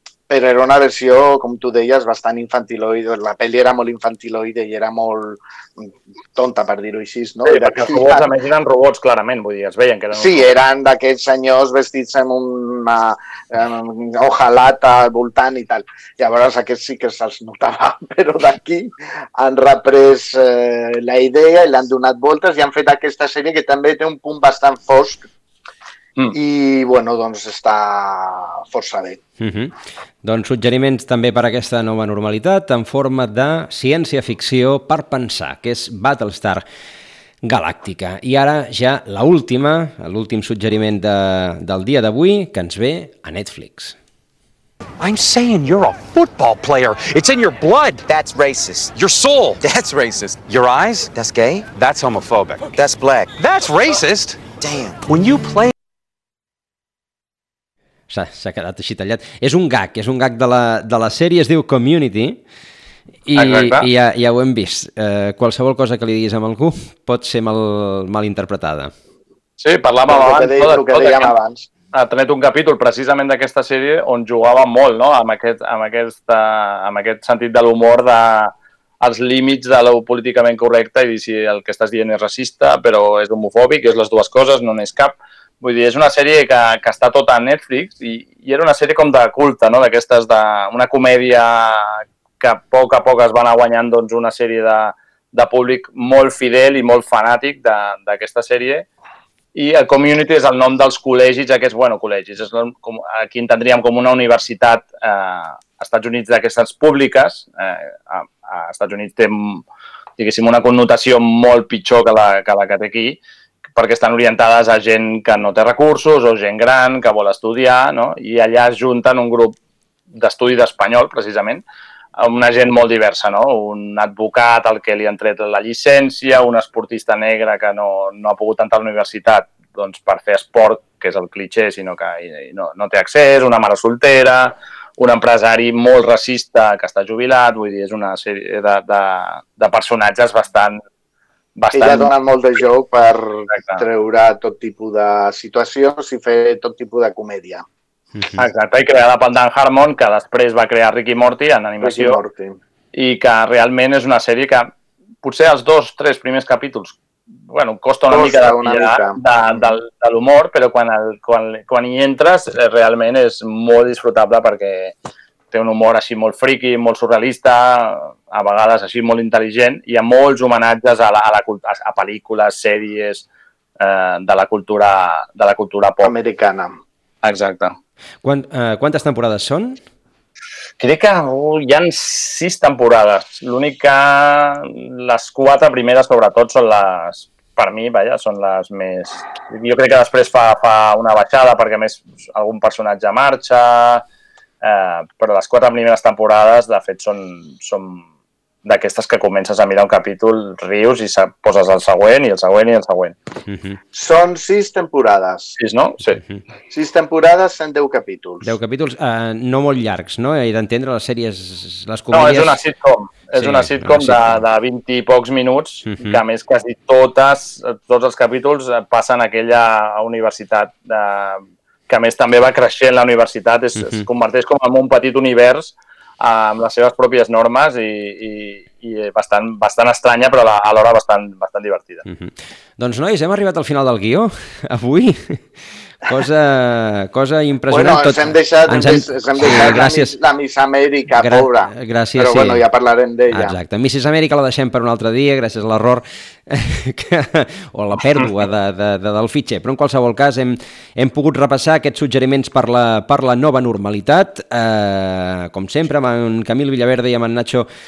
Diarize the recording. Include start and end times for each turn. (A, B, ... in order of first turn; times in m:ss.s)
0:00.3-0:08.3 A
0:07.4-0:10.6 B
0:10.1-0:25.2 A
0:26.3-0:29.2 A
0:29.4-0:36.6 C
0:37.4-0:44.0 C
0:45.0-0:55.7 D
0:58.1-1:02.4 C
1:03.3-1:08.9 C
1:03.4-1:03.9 B
1:09.6-1:11.3 B
1:10.1-1:11.7 A
1:11.9-1:38.9 B
1:39.6-1:49.6 B
1:50.2-1:53.2 B
1:53.8-1:59.6 B
2:00.1-2:01.6 B
2:02.2-2:20.8 B
2:21.6-2:22.1 B
2:21.7-2:27.6 A
2:23.5-2:23.8 B
2:28.2-2:28.4 C
2:28.4-2:32.2 B
2:31.8-2:32.6 A
2:32.9-2:45.0 B
2:38.1-2:39.8 A
2:45.5-2:53.2 B
2:53.8-2:56.1 B
2:56.0-2:56.8 A
2:57.2-2:57.8 B
2:58.2-2:59.8 C
3:00.8-3:14.0 B
3:14.6-3:18.1 B
3:18.6-3:23.2 B
3:23.5-3:23.8 C
3:23.9-3:25.6 A
3:25.6-3:26.2 B
3:26.1-3:26.4 C
3:26.7-3:28.6 A
3:28.4-3:32.6 C
3:32.1-3:52.0 B
3:33.4-3:34.4 C
3:35.8-3:36.2 C
3:43.8-3:44.0 C
3:52.0-3:55.5 C
3:56.0-4:00.2 C
3:57.7-4:03.6 A
4:01.2-4:02.6 C
4:03.3-4:17.7 C